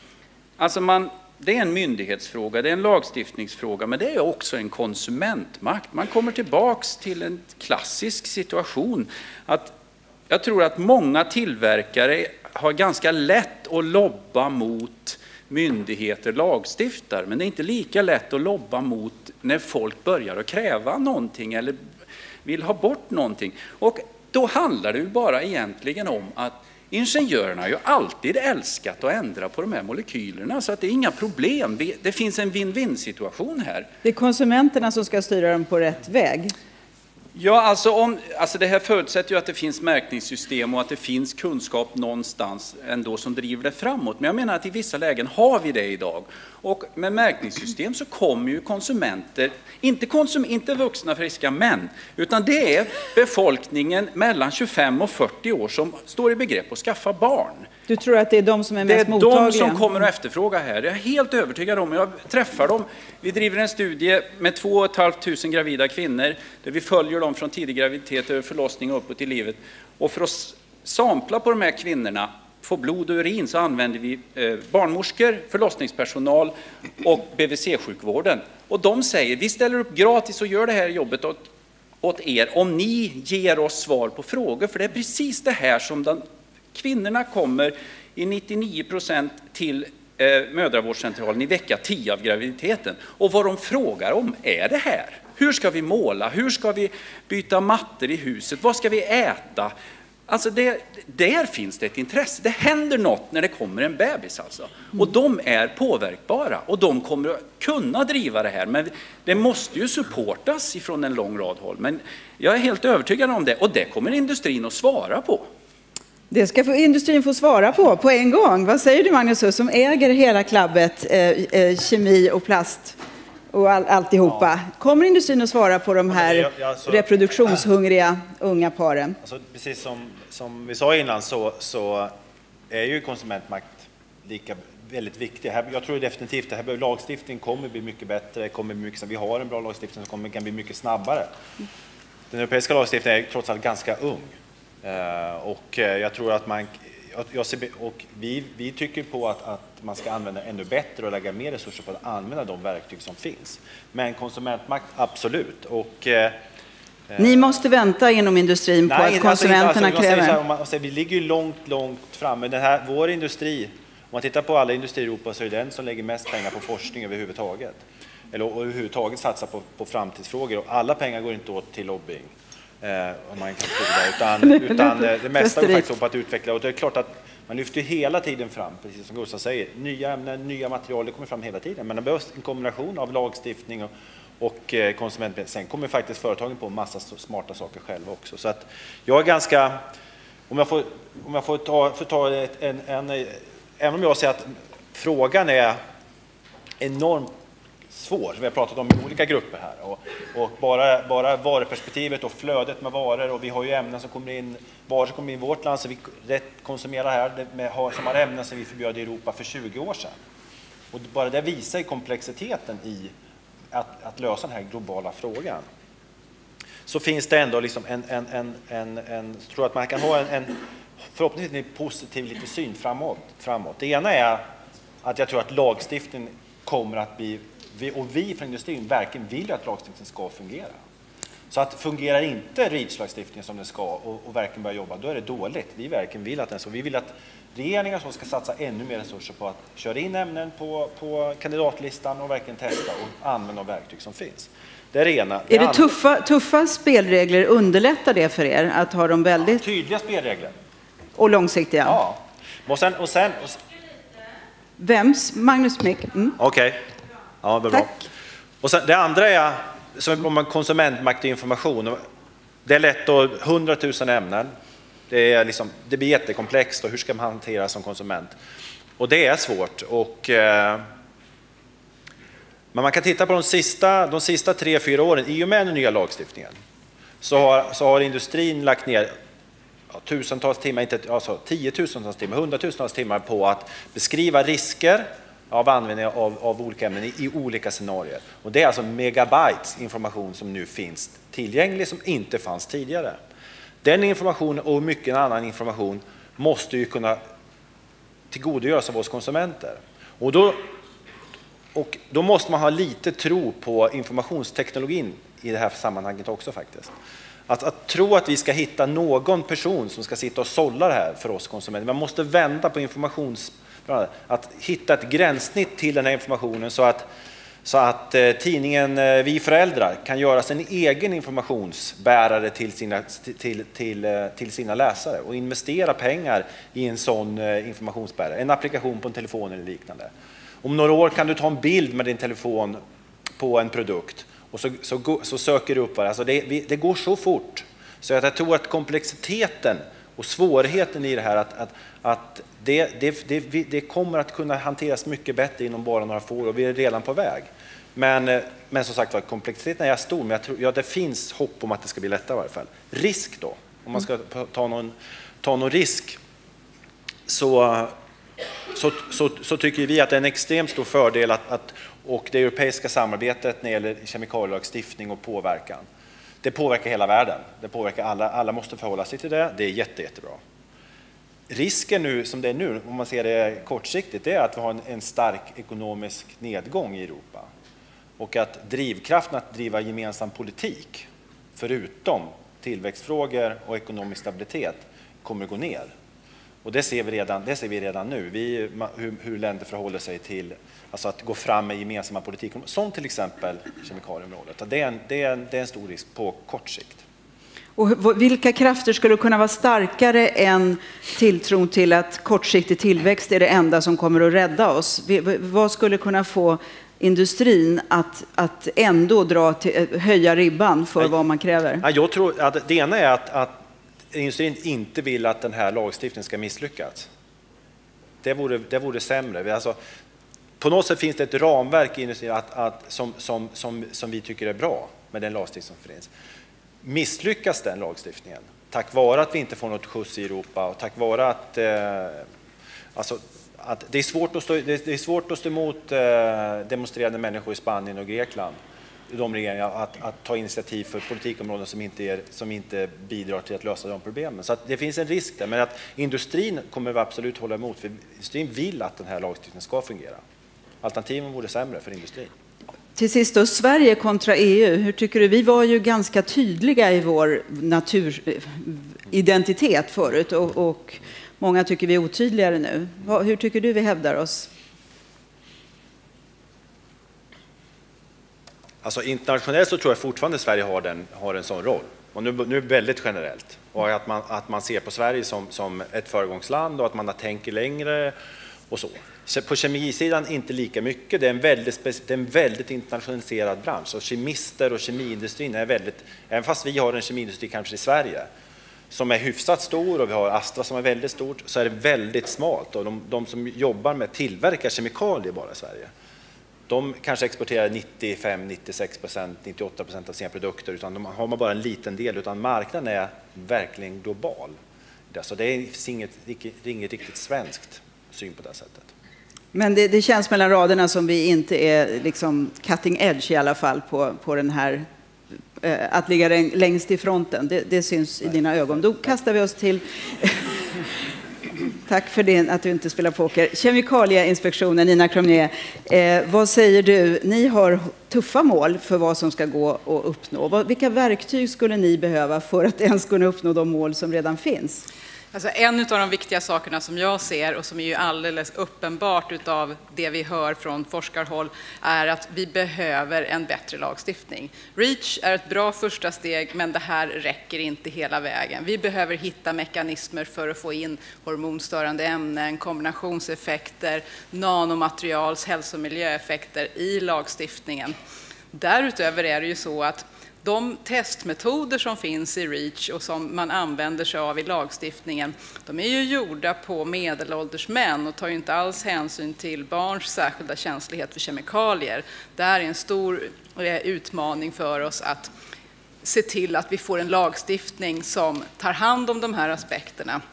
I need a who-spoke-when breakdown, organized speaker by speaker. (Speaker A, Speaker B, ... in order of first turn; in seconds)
Speaker A: 0.6-9.7, 10.3-21.8, 22.4-33.9, 37.3-57.7, 58.8-81.5, 82.0-86.2, 86.7-99.7, 100.3-115.5
Speaker B: 34.0-36.5, 57.9-59.8, 116.3-123.0, 123.5-129.2, 157.2-160.4, 174.4-175.9, 245.5-249.6, 251.2-252.0, 254.8-256.4, 397.8-411.8, 452.9-464.5, 509.5-514.9, 515.6-520.8, 521.7-534.8
Speaker C: 126.1-127.0, 129.2-132.1, 132.7-141.3, 142.3-156.4, 157.1-157.5, 158.9-189.8, 190.5-195.8, 196.8-197.3, 197.9-210.2, 210.9-213.1, 213.7-215.6, 216.8-220.6, 221.1-224.4, 225.0-230.8, 231.5-245.9, 249.6-250.6, 251.8-253.6, 256.4-256.9, 257.4-258.0, 258.6-262.0, 262.6-264.5, 265.1-268.3, 269.0-270.8, 272.7-276.6, 277.2-279.1, 279.9-293.2, 293.8-297.2, 298.3-300.6, 301.7-306.9, 307.5-317.1, 317.6-330.1, 330.6-332.8, 333.4-356.2, 357.3-357.9, 358.7-365.9, 366.4-370.4, 371.5-377.5, 378.2-385.9, 386.6-397.0, 411.8-417.1, 418.2-419.8, 420.6-426.1, 426.8-432.2, 432.9-450.2, 450.8-452.3, 468.8-478.1, 478.7-488.3, 488.9-495.9, 496.7-504.6, 505.1-508.9
Speaker D: 535.3-557.9, 558.5-575.3, 576.0-580.2